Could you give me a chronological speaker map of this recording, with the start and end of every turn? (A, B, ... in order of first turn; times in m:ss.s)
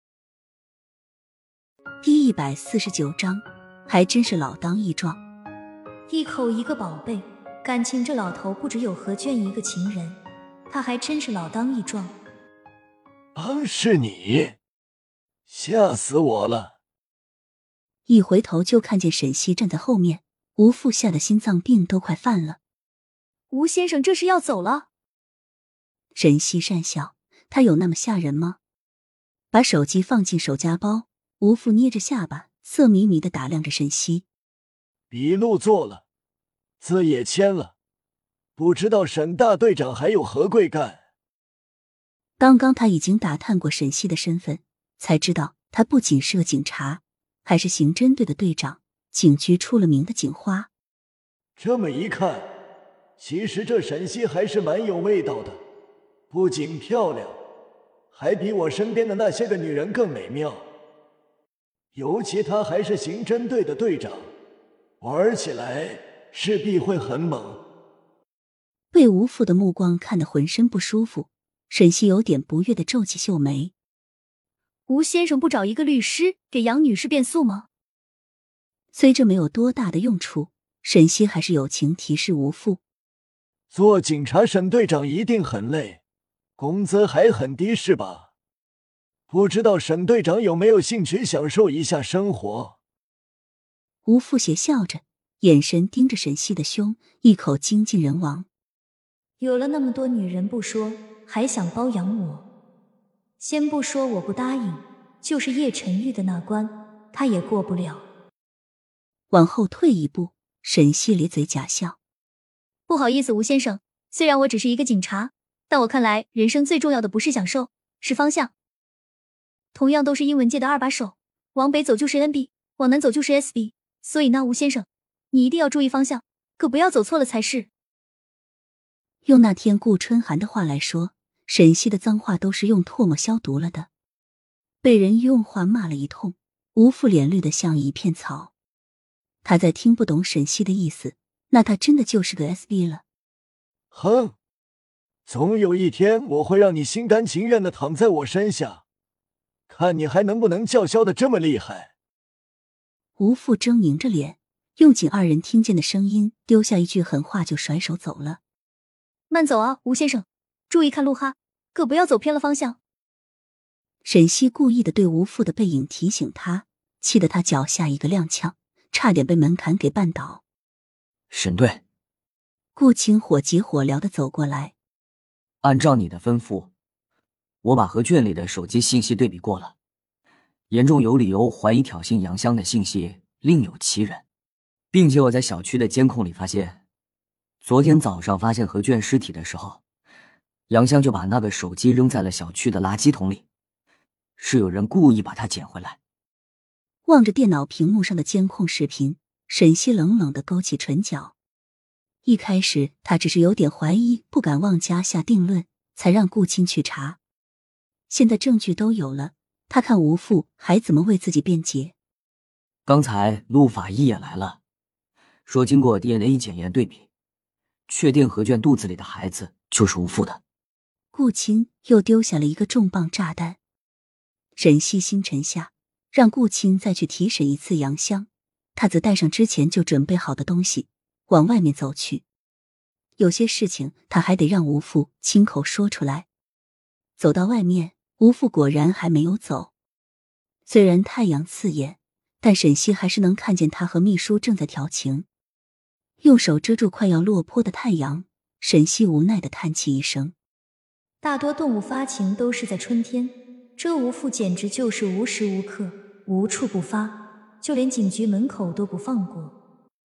0:02.0-0:05.2 A
0:06.1-0:12.1 B
0:13.3-0:14.5 C
0:15.5-0:16.7 C
0:18.1-0:22.6 A
0:23.5-0:24.9 B
0:26.1-0:28.6 A
0:29.5-0:34.2 A
0:35.1-0:36.0 C
0:36.8-0:37.7 C
0:38.6-0:41.0 C
0:42.4-0:50.7 A
0:51.6-0:52.4 C
0:53.2-0:55.6 C
0:56.3-0:57.4 C
0:58.1-1:00.6 C
1:01.9-1:04.2 C
1:05.0-1:07.6 C
1:08.9-1:13.7 A
1:14.9-1:17.7 B
1:18.9-1:22.8 A
1:23.7-1:26.0 C
1:26.6-1:28.3 C
1:29.3-1:32.8 C
1:34.0-1:38.4 A
1:39.4-1:42.4 B
1:43.4-1:48.0 B
1:49.3-1:52.0 A
1:52.9-1:58.5 B
1:59.7-2:07.7 B
2:09.2-2:13.9 A
2:14.8-2:18.5 A
2:19.4-2:23.0 A
2:23.9-2:24.3 C
2:25.3-2:28.8 C
2:29.7-2:31.9 C
2:33.2-2:38.4 A
2:39.3-2:42.8 B
2:44.0-2:50.4 A
2:51.3-2:51.8 D
2:52.8-2:54.7 A
2:55.6-2:56.7 D
2:57.6-2:59.7 D
3:00.7-3:04.2 D
3:04.9-3:06.8 D
3:07.6-3:09.8 D
3:10.7-3:13.4 D
3:14.4-3:16.0 D
3:17.0-3:21.3 A
3:22.2-3:27.2 A
3:28.1-3:31.9 A
3:32.8-3:34.6 D
3:35.4-3:37.1 D
3:37.9-3:40.4 D
3:41.1-3:43.6 A
3:44.6-3:52.2 A
3:53.2-3:56.3 A
3:57.2-3:59.7 A
4:00.7-4:05.3 A
4:06.2-4:10.3 A
4:11.2-4:19.5 B